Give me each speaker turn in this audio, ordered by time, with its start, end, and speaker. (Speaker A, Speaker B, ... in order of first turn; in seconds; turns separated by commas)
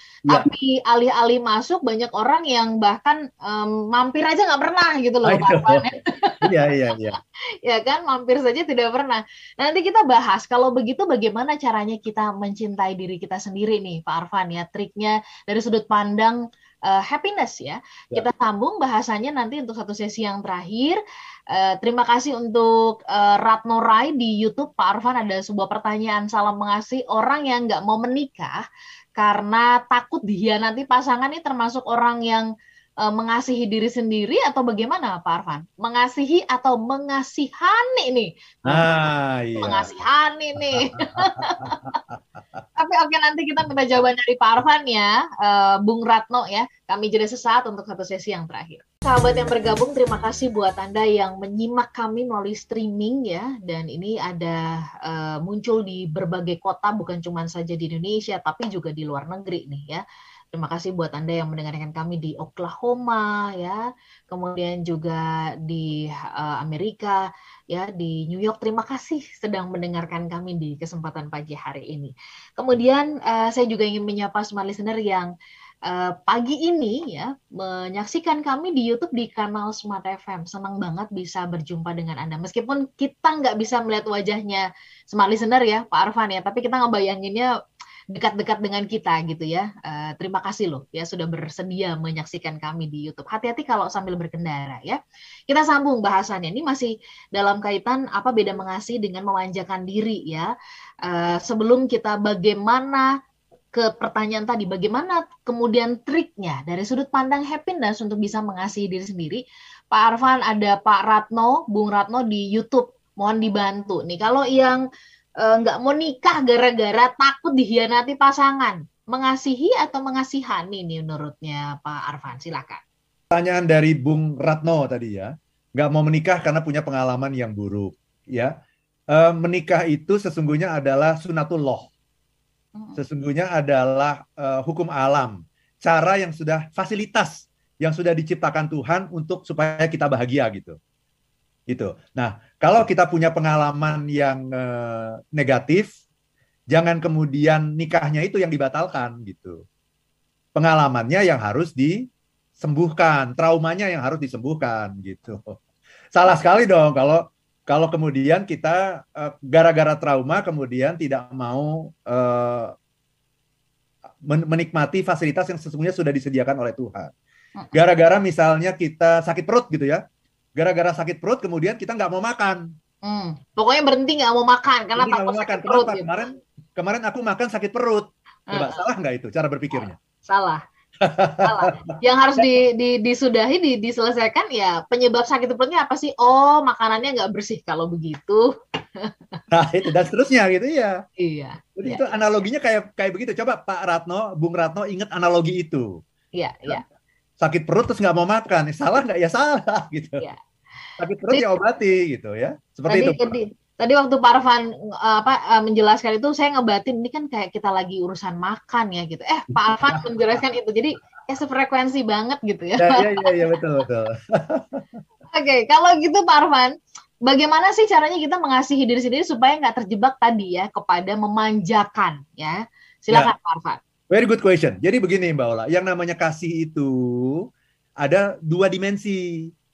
Speaker A: 0.3-6.4, Speaker B: 5.2-5.8, Speaker B: 6.4-7.2, Speaker A: 7.6-21.0, Speaker A: 21.5-28.6, Speaker A: 29.1-32.5, Speaker A: 33.0-41.9, Speaker B: 38.6-39.9, Speaker B: 41.6-42.2, Speaker A: 42.8-75.3, Speaker A: 75.8-87.5, Speaker A: 88.1-100.5, Speaker A: 101.0-103.1, Speaker A: 103.7-114.8, Speaker A: 115.4-122.8, Speaker B: 123.3-128.5, Speaker B: 129.1-131.9, Speaker B: 132.9-140.7, Speaker B: 141.7-145.9, Speaker B: 146.7-149.6, Speaker B: 150.6-151.9, Speaker B: 152.6-155.6, Speaker B: 156.1-162.7, Speaker B: 164.3-167.1, Speaker B: 167.7-170.0, Speaker B: 170.6-172.6, Speaker A: 173.0-176.2, Speaker B: 175.0-180.0, Speaker A: 178.5-178.8, Speaker A: 180.2-180.6, Speaker B: 181.0-181.7, Speaker A: 181.4-188.5, Speaker A: 189.0-189.4, Speaker B: 189.5-190.9, Speaker A: 191.2-192.2, Speaker B: 191.8-195.9, Speaker A: 196.3-196.8, Speaker B: 197.4-200.2, Speaker B: 201.0-203.2, Speaker A: 202.9-213.5, Speaker B: 209.7-210.0, Speaker B: 212.8-214.8, Speaker A: 215.3-223.8, Speaker B: 224.1-227.4, Speaker B: 228.0-229.5